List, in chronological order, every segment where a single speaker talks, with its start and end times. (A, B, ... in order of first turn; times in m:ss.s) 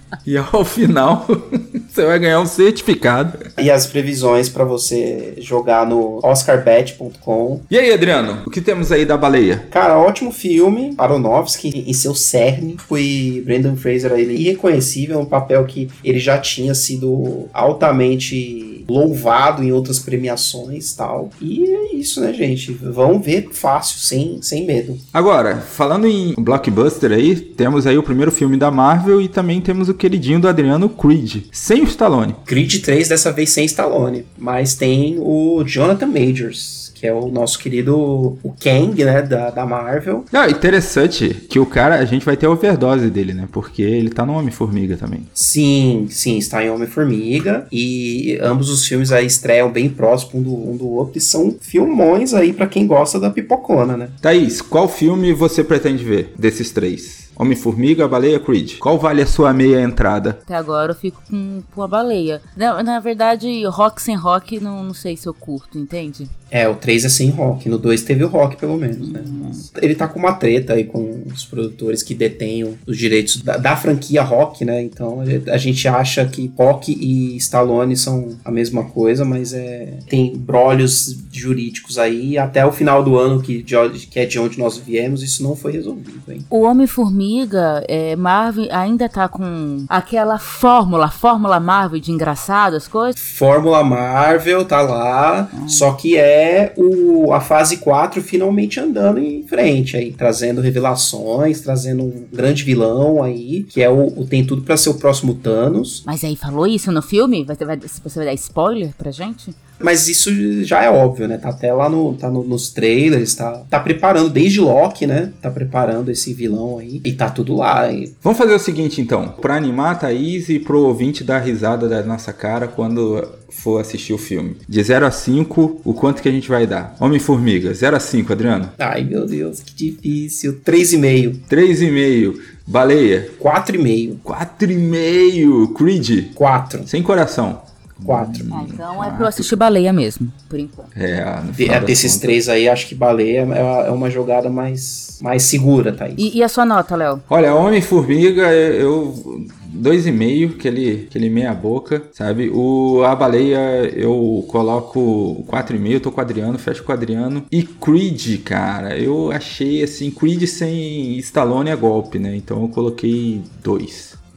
0:00.2-0:03.4 A
0:03.6-0:07.6 B
0:07.7-0:09.7 A
0:09.7-0:25.0 B
0:25.1-0:32.4 A
0:32.5-0:40.3 B
0:40.3-0:45.3 A
0:45.3-0:54.2 B
0:54.2-1:00.4 A
1:00.5-1:06.3 C
1:06.5-1:26.5 B
1:09.0-1:09.6 C
1:26.5-1:33.2 C
1:33.2-1:46.0 B
1:35.5-1:35.9 C
1:46.0-1:49.5 C
1:49.8-1:58.2 B
1:58.2-2:08.7 A
2:08.8-2:11.4 B
2:11.5-2:13.4 A
2:13.4-2:14.2 B
2:14.2-2:16.3 A
2:16.4-2:16.9 B
2:16.9-2:19.6 A
2:18.0-2:18.5 B
2:18.5-2:20.9 C
2:20.9-2:22.4 A
2:21.6-2:26.2 B
2:26.2-2:27.2 C
2:27.3-2:44.2 A